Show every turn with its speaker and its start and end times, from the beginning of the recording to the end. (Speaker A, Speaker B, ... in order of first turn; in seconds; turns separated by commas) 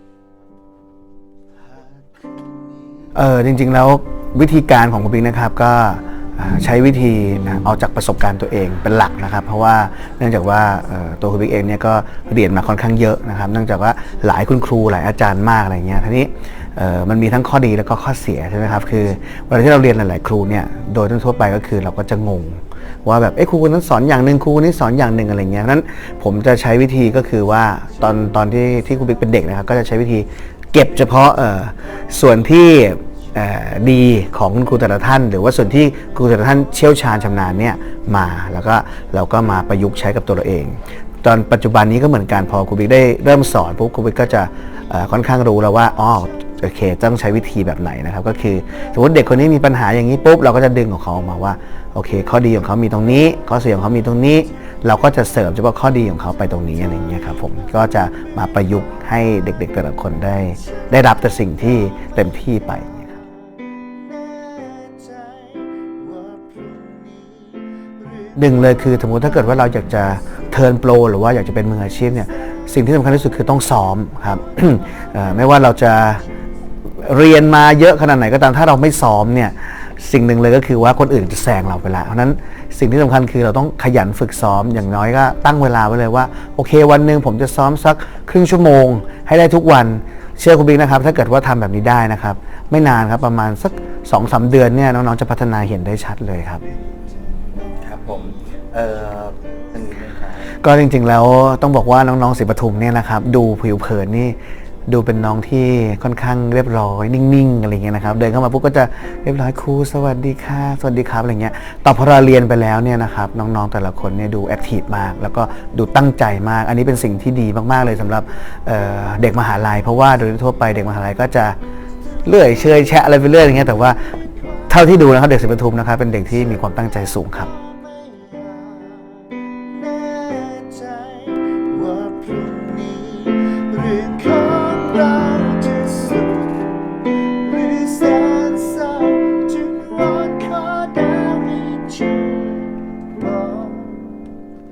Speaker A: 3.1-63.2, Speaker B: 63.8-68.3, Speaker A: 68.3-76.2, Speaker A: 77.0-96.6, Speaker C: 97.8-100.4, Speaker A: 100.5-104.4, Speaker A: 104.9-121.6, Speaker A: 122.2-124.0, Speaker A: 124.7-127.5, Speaker B: 128.0-144.3